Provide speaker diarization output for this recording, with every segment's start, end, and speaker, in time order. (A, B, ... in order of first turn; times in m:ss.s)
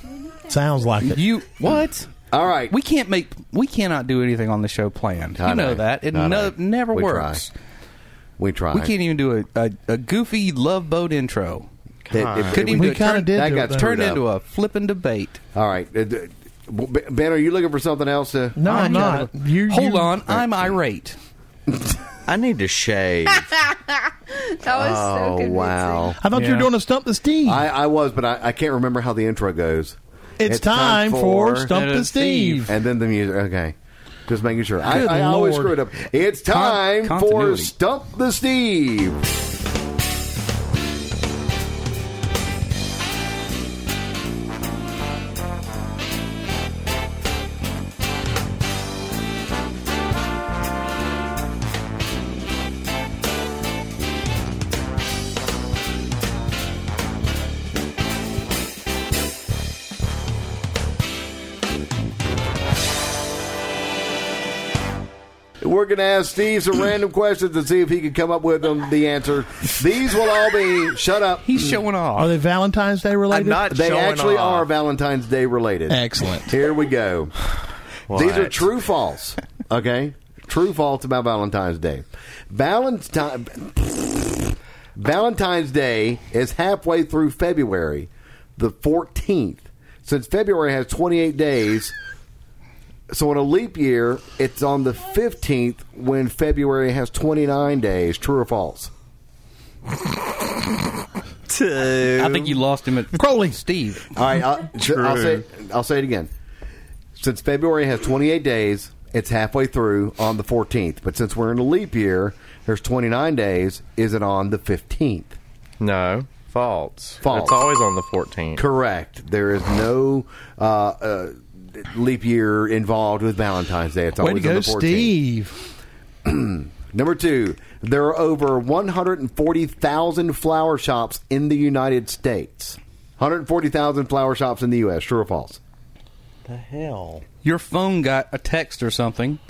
0:00.5-0:01.2 A
0:01.0-0:02.1 B
0:02.3-0:02.8 C
0:02.7-0:07.5 B
0:05.4-0:07.4 C
0:08.4-0:08.9 C
0:08.7-0:11.7 B
0:12.0-0:12.8 D
0:12.1-0:14.2 C
0:12.5-0:15.4 B
0:12.6-0:13.9 A
0:15.5-0:19.2 C
0:18.6-0:20.3 A
0:18.6-0:21.2 B
0:22.3-0:23.5 D
0:23.9-0:26.2 E
0:24.7-0:26.2 C
0:26.2-0:27.6 A
0:26.3-0:26.7 B
0:27.4-0:31.7 C
0:30.4-0:32.7 A
0:31.7-0:32.7 B
0:32.7-0:33.7 C
0:34.3-0:39.2 C
0:34.9-0:35.7 A
0:34.9-0:35.3 B
0:36.4-0:37.7 B
1:05.6-1:11.7 C
1:11.4-1:12.4 B
1:12.2-1:13.7 A
1:13.3-1:14.7 D
1:13.7-1:17.3 C
1:15.9-1:16.5 A
1:18.1-1:18.7 D
1:18.1-1:31.9 C
1:33.1-1:38.9 C
1:41.5-1:42.6 D
1:42.0-1:44.1 B
1:43.1-1:43.6 A
1:44.1-1:46.3 C
1:44.8-1:45.4 D
1:47.2-1:55.4 C
1:55.8-1:58.6 D
1:57.2-1:57.6 C
1:58.6-2:05.1 C
2:04.2-2:05.6 A
2:06.2-2:15.6 C
2:16.4-2:17.2 D
2:17.4-2:19.4 B